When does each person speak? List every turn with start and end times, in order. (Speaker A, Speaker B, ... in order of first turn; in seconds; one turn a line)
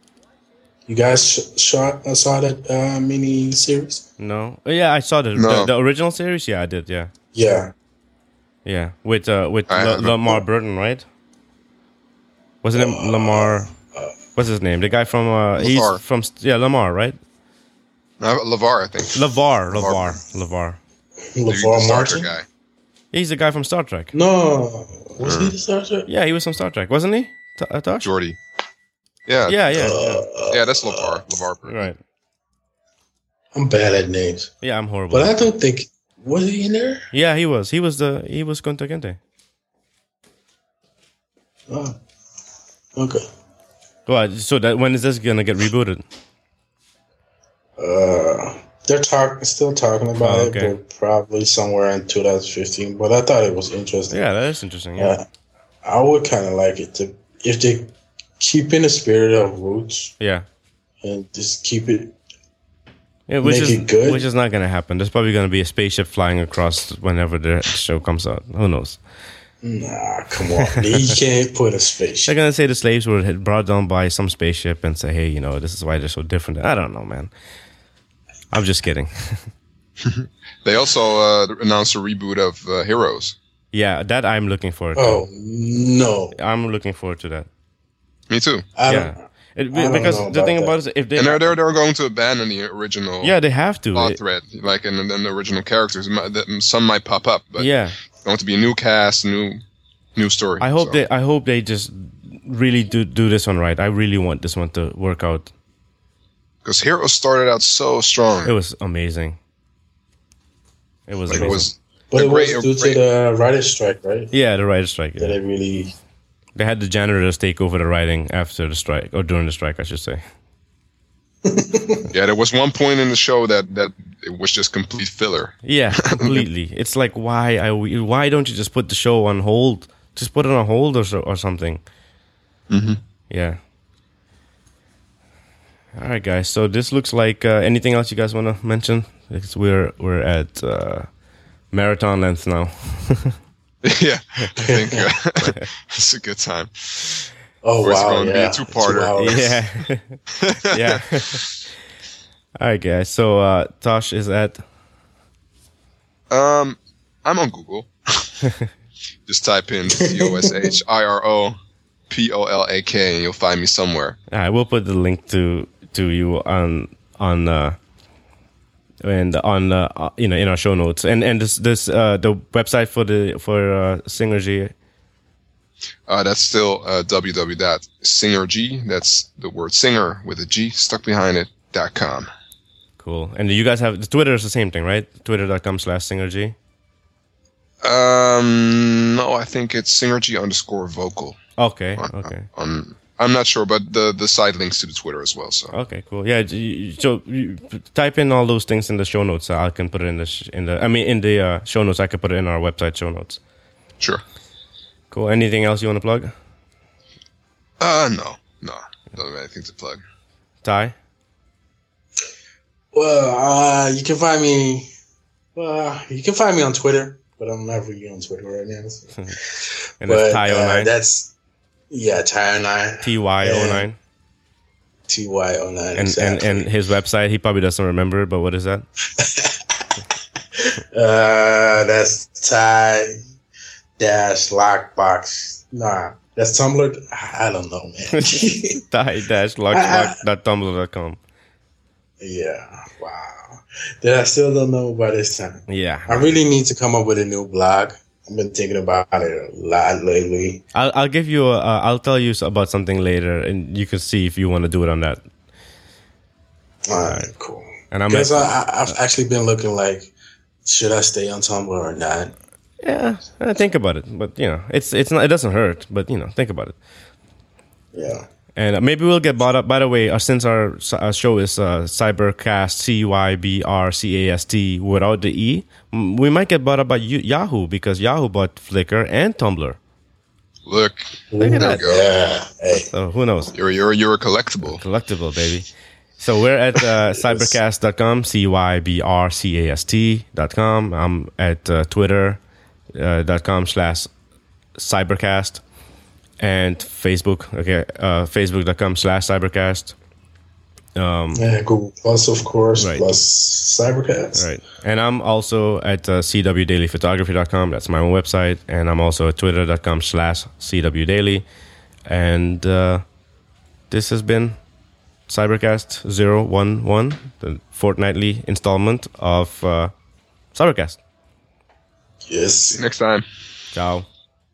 Speaker A: 0.9-4.0
Speaker B: 4.2-7.1
Speaker C: 5.3-5.7
Speaker A: 7.3-7.7
Speaker B: 8.6-11.0
Speaker C: 9.7-10.3
Speaker B: 12.6-13.7
Speaker A: 12.7-14.2
Speaker B: 14.3-17.2
Speaker C: 15.6-16.0
Speaker C: 18.2-20.2
Speaker B: 19.1-20.8
Speaker A: 21.3-22.3
Speaker C: 21.5-22.4
Speaker B: 23.1-24.1
Speaker A: 24.1-26.1
Speaker C: 25.2-25.5
Speaker B: 26.1-28.1
Speaker C: 28.0-28.4
Speaker C: 29.3-29.6
Speaker B: 29.4-30.2
Speaker A: 29.7-31.2
Speaker C: 30.5-31.9
Speaker B: 31.7-32.0
Speaker A: 33.5-34.5
Speaker B: 34.6-35.4
Speaker A: 35.1-37.1
Speaker B: 37.1-39.2
Speaker A: 41.7-42.0
Speaker A: 42.9-43.2
Speaker B: 44.1-46.0
Speaker A: 47.8-54.2
Speaker B: 50.2-50.7
Speaker B: 54.1-55.1
Speaker A: 55.0-55.2
Speaker A: 55.8-60.1
Speaker B: 60.2-60.5
Speaker A: 61.0-62.1
Speaker B: 63.3-69.0
Speaker A: 63.4-64.2
Speaker A: 69.6-72.3
Speaker B: 70.7-71.1
Speaker B: 72.3-77.3
Speaker B: 78.5-79.5
Speaker C: 80.0-83.3
Speaker B: 83.7-85.3
Speaker A: 85.0-86.4
Speaker B: 86.3-87.5
Speaker C: 88.3-88.7
Speaker A: 88.8-90.8
Speaker B: 88.9-91.6
Speaker C: 91.2-93.3
Speaker B: 93.2-94.2
Speaker C: 93.9-97.7
Speaker B: 97.6-98.0
Speaker C: 98.2-99.6
Speaker C: 100.1-101.0
Speaker B: 100.6-105.5
Speaker C: 106.6-108.5
Speaker B: 108.4-109.4
Speaker B: 111.1-111.7
Speaker C: 111.3-113.0
Speaker A: 112.1-114.3
Speaker B: 114.3-115.3
Speaker A: 115.2-115.9
Speaker B: 116.5-120.2
Speaker A: 121.4-122.1
Speaker C: 122.1-126.4
Speaker B: 125.6-131.8
Speaker C: 132.7-133.0
Speaker B: 133.3-133.6
Speaker B: 135.9-141.1
Speaker B: 141.7-143.4
Speaker C: 143.8-147.3
Speaker A: 144.6-145.1
Speaker B: 145.4-145.7
Speaker A: 147.6-149.6
Speaker C: 147.8-149.6
Speaker B: 149.2-151.4
Speaker C: 150.3-151.5
Speaker B: 152.6-154.6
Speaker C: 156.3-158.4
Speaker C: 159.3-161.6
Speaker A: 159.9-160.7
Speaker C: 162.1-164.2
Speaker B: 164.3-167.8
Speaker B: 169.0-174.7
Speaker C: 176.1-182.3
Speaker B: 183.0-186.6
Speaker C: 187.8-191.4
Speaker B: 191.6-192.5
Speaker C: 192.0-195.7
Speaker B: 195.7-203.4
Speaker B: 205.1-206.3
Speaker C: 207.8-210.0
Speaker B: 210.6-210.9
Speaker A: 212.9-214.9
Speaker A: 215.6-221.3
Speaker B: 220.0-220.9
Speaker A: 221.9-223.9
Speaker B: 223.0-224.0
Speaker A: 225.1-226.7
Speaker B: 225.9-228.8
Speaker A: 229.1-229.9
Speaker A: 230.5-233.2
Speaker A: 234.0-238.8
Speaker B: 238.1-241.2
Speaker A: 239.7-240.2
Speaker A: 242.2-250.6
Speaker B: 245.7-246.2
Speaker B: 250.7-255.2
Speaker A: 256.9-260.1
Speaker B: 257.9-258.4
Speaker A: 260.6-262.3
Speaker B: 262.8-266.8
Speaker A: 267.9-268.3
Speaker B: 268.6-279.8
Speaker C: 280.6-282.0
Speaker A: 281.3-282.9
Speaker B: 281.4-281.9
Speaker B: 282.9-283.5
Speaker C: 283.5-284.8
Speaker B: 284.6-285.7
Speaker B: 286.2-292.4
Speaker A: 287.3-287.6
Speaker B: 292.9-294.1
Speaker B: 294.8-295.6
Speaker B: 296.4-299.9
Speaker B: 300.9-301.4
Speaker A: 301.3-304.5
Speaker B: 302.8-303.2
Speaker B: 304.3-311.4
Speaker B: 312.1-313.0
Speaker B: 313.9-314.6
Speaker B: 315.3-319.9
Speaker B: 320.5-321.0
Speaker A: 322.2-322.8
Speaker C: 322.7-323.2
Speaker B: 323.7-324.1